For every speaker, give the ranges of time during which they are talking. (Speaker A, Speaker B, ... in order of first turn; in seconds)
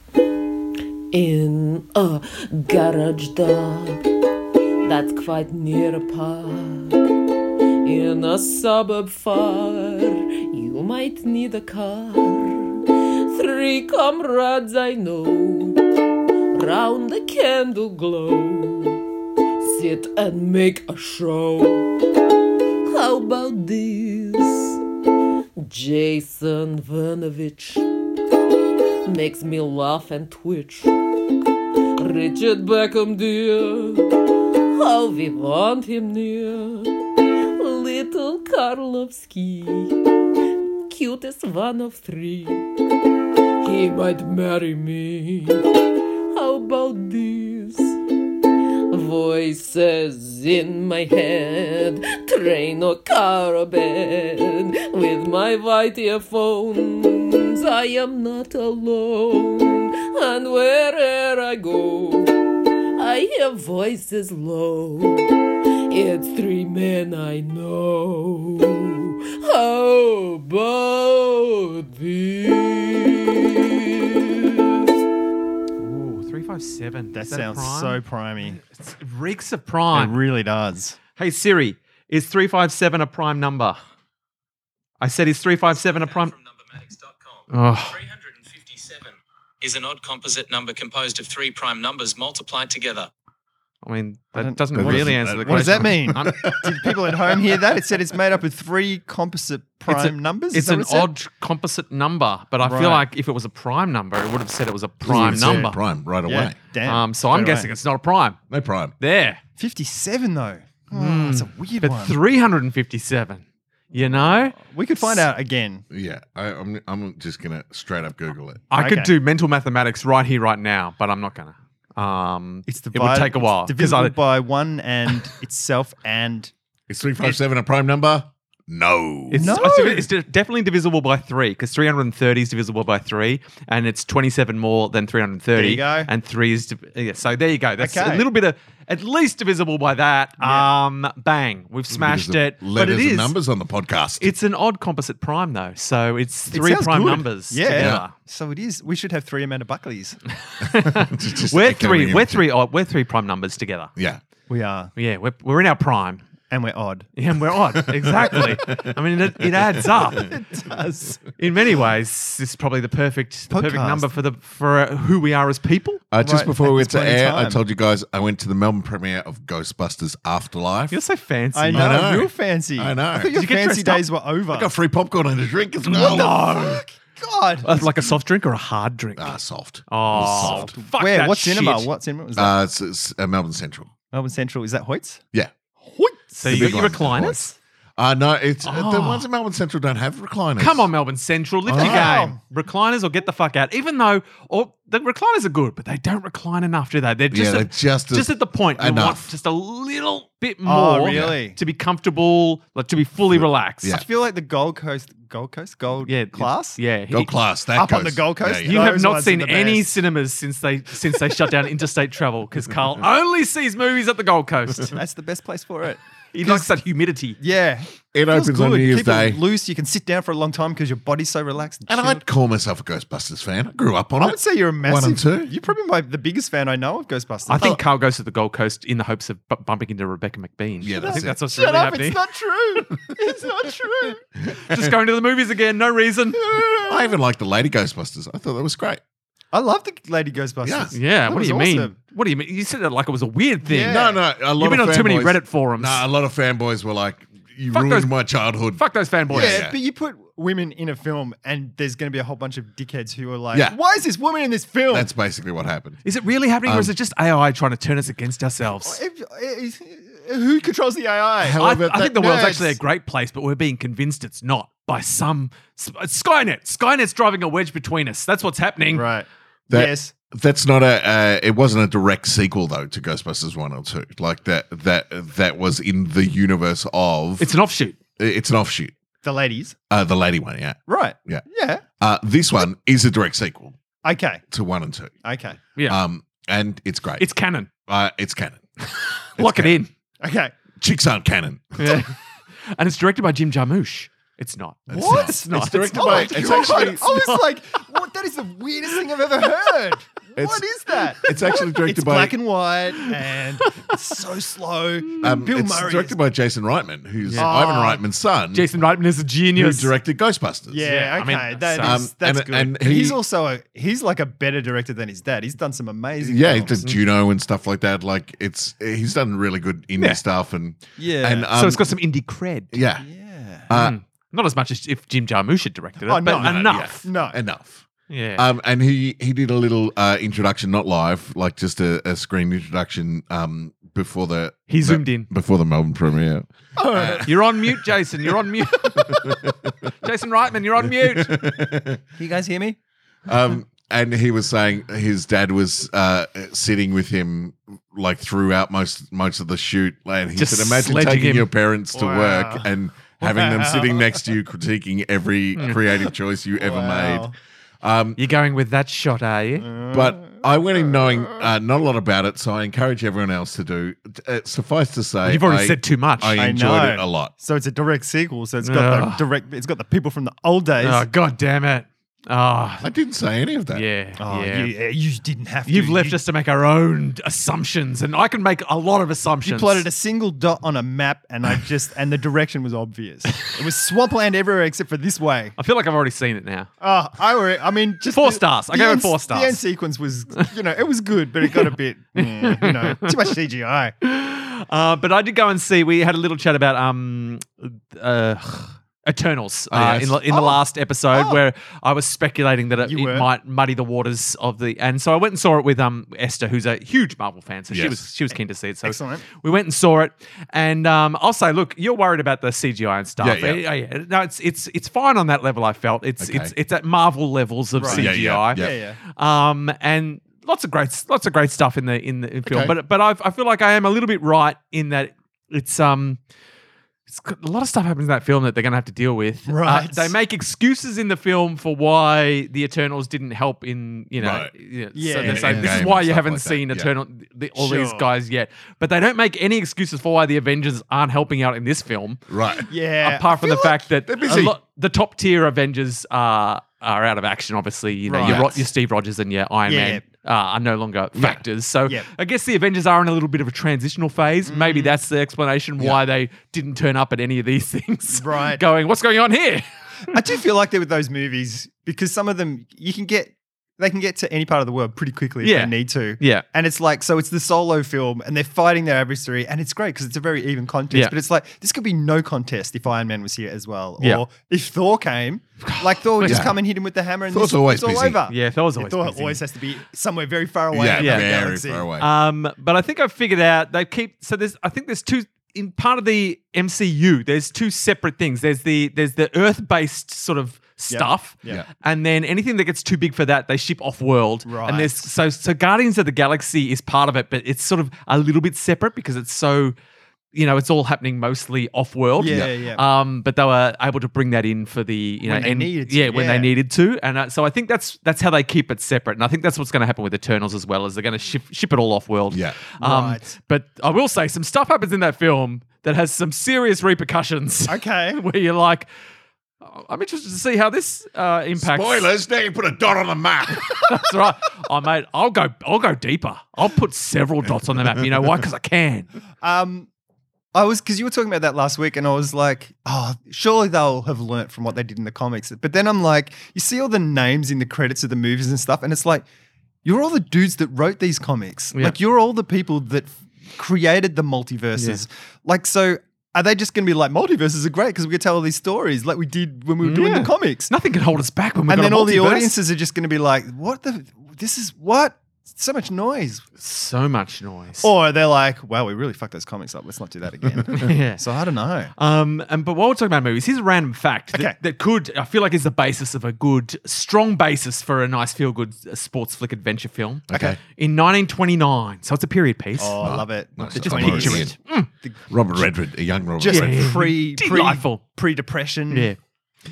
Speaker A: 1.1-4.0, 4.8-7.2, 7.8-15.8, 16.5-19.0, 19.6-22.0, 22.8-24.8, 25.6-27.9, 29.1-31.0, 31.9-42.7, 43.6-48.0, 48.9-74.9
Speaker B: 75.8-80.1, 81.2-83.8, 85.0-86.4, 87.5-88.0, 93.8-96.6, 99.9-105.8, 106.8-108.4, 109.0-109.4, 110.9-114.6, 118.7-124.1, 129.3-143.3, 144.2-148.1, 150.5-153.9, 154.9-156.2, 157.2-160.3, 161.4-166.0, 170.9-172.0, 173.3-174.0, 175.8-176.8, 177.6-179.3, 179.9-181.9, 186.3-187.5, 188.6-189.2, 190.6-203.9, 206.1-207.3, 208.6-215.0, 216.3-217.4, 227.5-232.2, 234.5-236.4, 240.9-244.1, 244.6-246.0, 247.7-248.1, 248.8-249.6, 256.0-259.0, 261.6-269.1, 277.4-278.0, 287.2-287.7, 288.8-289.9, 291.8-292.1, 292.7-297.3, 303.6-304.0, 307.2-307.5, 308.5-309.9, 310.8-312.0, 321.5-322.7, 323.7-327.1, 328.1-328.4, 334.7-335.3, 337.2-339.2, 340.0-341.3, 350.4-351.5, 358.1-359.7, 365.2-366.4, 368.6-369.2, 370.8-372.9, 373.7-374.7, 375.7-379.9, 385.6-386.7, 388.1-389.6, 392.1-393.3, 394.0-426.2, 427.1-442.2, 443.0-460.1, 465.4-466.4, 475.6-476.5, 478.3-479.4, 481.0-481.3, 482.0-499.7, 500.3-518.9, 519.6-522.1, 523.6-529.1, 544.8-545.0, 549.8-552.5, 556.6-557.9, 560.7-561.2, 562.0-573.1, 573.8-574.9, 576.5-578.0, 578.9-579.2
Speaker C: 77.1-78.6, 79.9-81.0, 94.3-101.1, 102.6-103.0, 106.2-107.7, 109.6-112.2, 114.0-115.8, 118.7-119.1, 122.7-126.5, 129.3-130.1, 135.5-136.1, 137.8-138.3, 140.4-140.7, 146.5-150.2, 154.5-154.9, 156.5-157.1, 160.1-161.2, 163.5-164.1, 166.2-167.6, 171.5-174.7, 175.9-178.0, 180.3-182.6, 184.1-185.2, 185.8-186.7, 191.8-192.4, 200.6-201.6, 203.9-206.8, 207.7-209.9, 214.9-216.7, 217.4-222.2, 224.2-227.8, 231.0-234.2, 236.3-237.2, 239.5-241.9, 243.7-244.2, 249.3-255.1, 258.8-262.8, 268.9-270.1, 279.2-279.8, 280.9-281.8, 284.0-284.4, 285.2-285.6, 290.2-290.5, 294.9-306.2, 307.4-308.0, 310.7-316.9, 321.0-321.5, 323.0-323.7, 326.1-327.4, 336.8-337.4, 342.2-342.8, 351.9-352.7, 353.2-354.2, 356.1-357.3, 359.6-361.5, 366.3-371.0, 374.2-376.2, 379.4-385.5, 386.8-393.9, 400.3-400.6, 401.1-401.4, 402.8-403.3, 408.8-409.2, 417.8-419.0, 429.5-430.1, 434.9-435.9, 437.6-438.1, 442.6-443.8, 448.1-448.4, 449.6-450.0, 454.4-455.0, 458.1-458.6, 460.1-481.9, 490.9-491.6, 494.4-495.1, 502.2-502.8, 505.2-506.5, 512.8-513.3, 517.7-518.2, 529.4-529.9, 530.5-539.2, 539.8-550.7, 551.7-556.4, 557.8-561.9, 570.3-570.6, 572.8-575.2, 576.4-579.1
Speaker D: 88.1-93.1
Speaker E: 94.7-97.6, 105.0-106.5, 108.5-108.9, 115.9-118.6, 126.9-129.5, 141.9-144.3, 147.7-148.0, 150.7-152.4, 157.9-158.9, 166.1-171.0, 171.7-173.3, 174.5-176.6, 179.2-180.7, 182.3-183.9, 186.4-187.4, 188.0-190.9, 191.7-192.2, 197.3-199.3, 201.1-201.4, 203.3-204.0, 207.1-208.7, 218.1-219.4, 221.9-225.5, 230.8-231.4, 234.5-234.9, 236.8-239.0, 240.6-240.9, 243.9-249.7, 254.9-256.0, 256.6-256.9, 261.4-262.1, 269.7-277.5, 278.2-278.9, 279.9-281.4, 282.0-283.8, 284.5-285.1, 285.9-287.2, 287.9-288.6, 289.4-289.8, 290.8-292.1, 294.9-297.1, 300.3-300.6, 301.2-302.3, 305.2-308.7, 309.5-310.8, 311.8-313.1, 316.2-321.8, 322.7-323.1, 323.7-324.0, 326.3-337.5, 338.9-339.9, 340.9-342.0, 343.3-358.2, 359.9-367.3, 372.8-373.8, 399.7-400.2, 407.7-408.0, 413.2-413.6, 416.2-416.5, 417.9-418.7, 422.5-422.7, 434.2-434.5, 435.2-436.9, 442.3-442.6, 444.1-444.5, 448.2-448.6, 451.1-451.4, 476.2-476.6, 477.3-478.2, 480.7-482.1, 512.3-512.6, 521.6-524.1, 570.3-570.6, 573.0-574.5, 575.3-577.0